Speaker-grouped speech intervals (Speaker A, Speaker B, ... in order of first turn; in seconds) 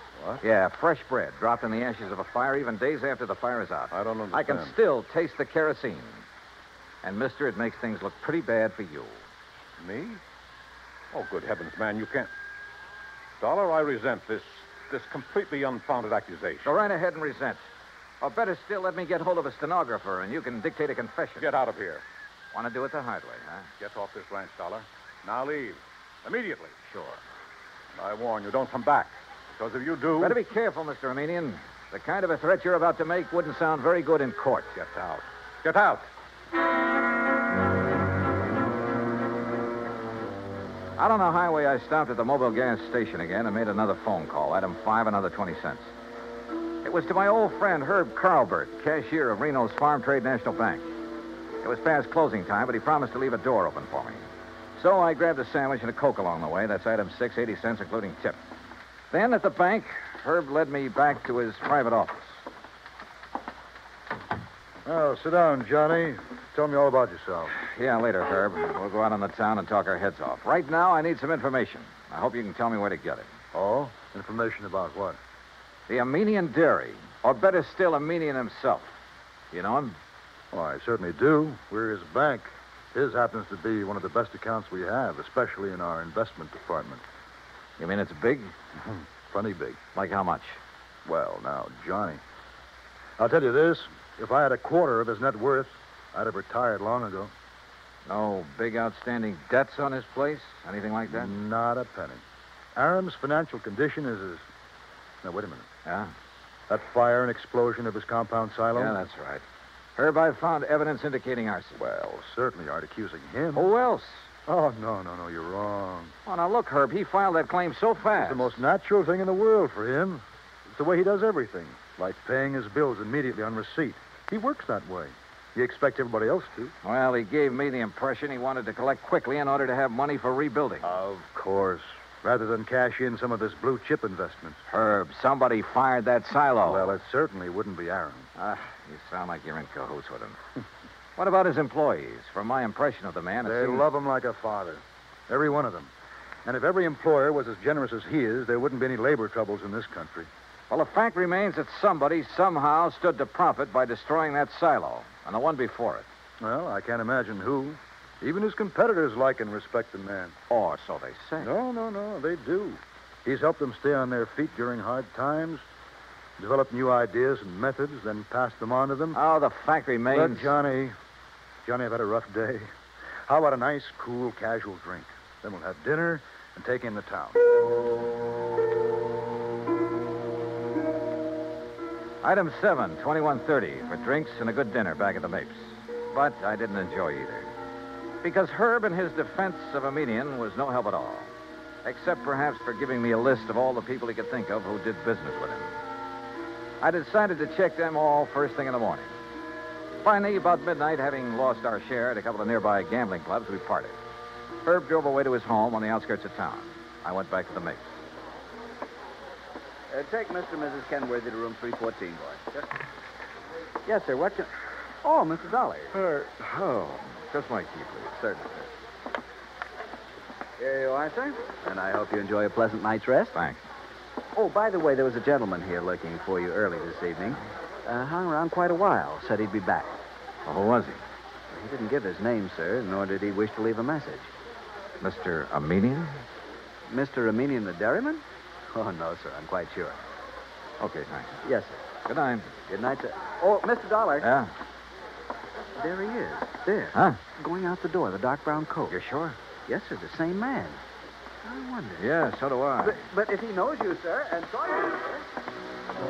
Speaker A: 0.2-0.4, 3.9-4.7, 9.8-10.2, 11.1-12.3, 13.4-16.8, 21.4-22.0, 23.8-26.8, 28.0-30.4, 34.8-36.1
Speaker B: 0.4-6.2, 7.0-9.2, 16.6-17.6, 18.2-21.6, 22.5-23.7, 26.9-27.2, 30.2-34.8, 41.0-45.9, 46.8-50.9, 51.6-54.2, 54.8-58.4, 59.1-62.4, 67.6-73.3, 75.9-79.0, 79.5-80.0, 87.8-88.5, 90.0-90.6, 98.1-101.3, 105.9-106.1, 108.7-109.4, 110.0-111.8, 113.5-114.3, 116.3-118.6, 126.8-130.9, 134.7-137.0, 138.4-140.4, 141.2-143.9, 150.7-156.1, 160.5-161.5, 169.1-170.5, 182.2-187.5, 188.2-191.3, 191.8-195.7, 196.8-199.1, 200.0-204.0, 204.7-207.9, 216.0-218.1, 223.3-223.6, 230.5-231.0, 235.0-236.2, 240.8-241.4, 242.1-242.6, 244.2-244.5, 246.9-247.2, 248.9-249.4, 252.0-253.0
Speaker C: 64.8-67.6, 73.5-75.2, 80.5-87.0, 89.3-89.8, 91.0-92.2, 93.2-97.3, 101.1-102.2, 102.8-104.5, 105.2-105.7, 106.7-109.0, 111.8-113.7, 114.5-116.2, 118.2-126.8, 130.8-134.6, 136.6-138.3, 143.4-145.9, 146.4-150.3, 156.4-160.3, 161.4-165.6, 166.4-169.2, 170.1-170.9, 171.6-172.7, 173.3-177.4
Speaker D: 209.9-212.7, 213.9-216.0, 218.1-218.7, 220.6-223.4, 224.3-230.0, 231.5-234.3, 236.9-238.2, 238.7-240.0, 241.4-241.8, 242.6-244.3, 245.8-249.0, 249.6-250.8, 251.4-252.2, 252.8-255.3